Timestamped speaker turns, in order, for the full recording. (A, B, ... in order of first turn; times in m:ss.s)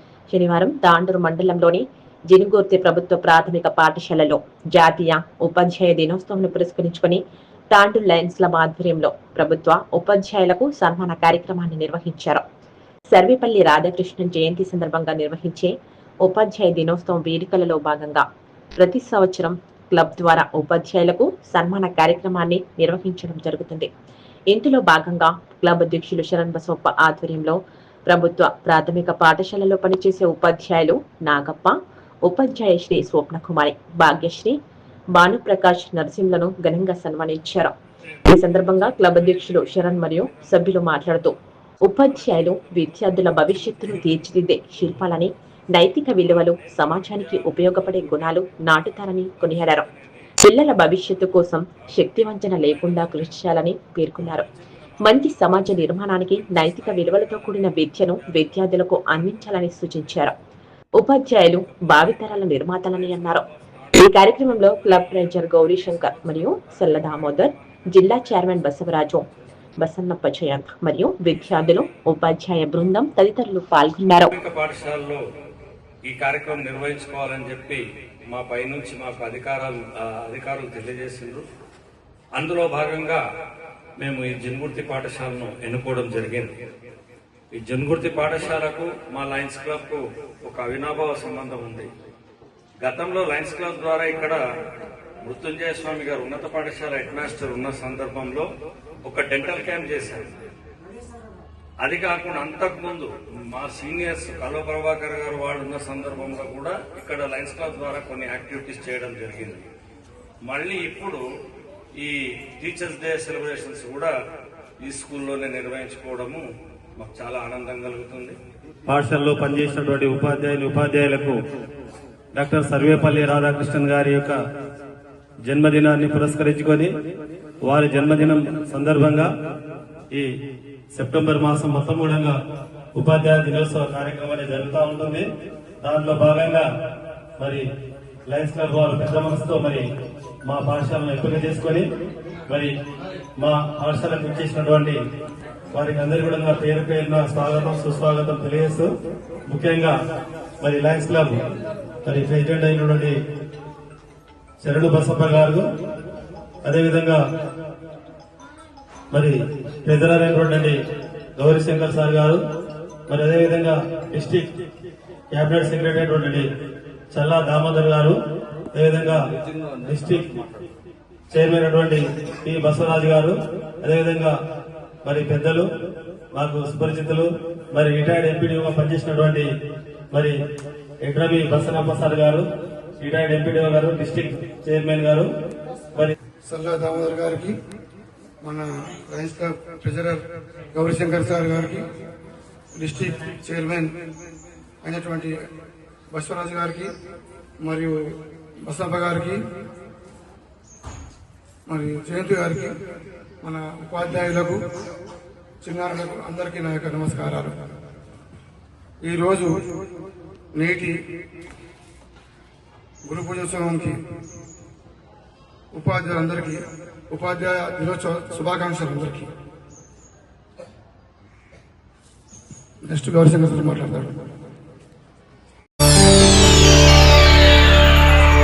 0:00.3-0:12.4 A
0:13.1-0:18.2 A
0:18.8-0:23.9 A
0:24.5-0:27.6 A
0:28.1-0:34.6 A
0:35.1-0:37.7 A
0:38.3-0:49.9 A
0:38.8-0:40.4 B
0:42.1-0:44.0 B
0:46.4-0:48.1 B
0:50.4-0:54.5 A
0:52.2-0:53.3 B
0:55.0-1:00.3 A
0:55.1-0:55.6 B
0:56.8-0:57.7 B
1:01.0-1:09.3 A
1:01.7-1:02.2 B
1:02.8-1:04.0 B
1:04.8-1:07.4 B
1:08.3-1:08.6 B
1:09.8-1:14.3 A
1:14.3-1:15.2 B
1:16.0-1:21.4 B
1:22.4-1:23.2 B
1:24.0-1:26.6 B
1:27.5-1:31.9 B
1:32.8-1:34.4 B
1:35.2-1:38.5 B
1:39.0-1:40.3 B
1:41.8-1:49.7 B
1:50.4-1:51.2 B
1:52.0-1:54.1 B
1:54.8-1:56.4 B
1:57.0-1:58.4 B
1:58.9-2:01.4 C
2:02.3-2:04.4 C
2:05.4-2:06.9 C
2:07.6-2:09.3 C
2:10.9-2:12.4 C
2:13.0-2:15.3 C
2:15.8-2:16.7 C
2:17.4-2:17.6 C
2:18.3-2:19.8 C
2:20.4-2:21.8 C
2:22.5-2:22.7 C
2:23.4-2:25.0 C
2:25.7-2:28.9 C
2:29.5-2:30.0 C
2:30.6-2:31.4 C
2:32.0-2:33.2 C
2:34.6-2:35.7 C
2:36.6-2:37.2 C
2:39.1-2:40.8 C
2:41.4-2:42.4 C
2:43.1-2:44.5 C
2:45.3-2:46.5 C
2:47.1-2:48.2 C
2:48.7-2:49.2 C
2:49.3-2:50.7 B
2:49.9-2:50.3 C
2:51.3-2:54.4 C
2:55.0-2:55.7 C
2:56.3-2:59.5 C
3:01.0-3:02.5 C
3:03.0-3:05.3 C
3:06.5-3:07.6 D
3:08.4-3:10.2 D
3:10.7-3:11.8 D
3:12.8-3:14.0 D
3:14.8-3:15.3 D
3:16.1-3:16.9 D
3:17.6-3:19.4 D
3:21.7-3:22.7 D
3:23.4-3:24.6 D
3:25.6-3:27.6 D
3:29.0-3:29.5 D
3:30.5-3:30.9 D
3:33.0-3:34.0 D
3:35.7-3:39.3 D
3:42.8-3:44.2 D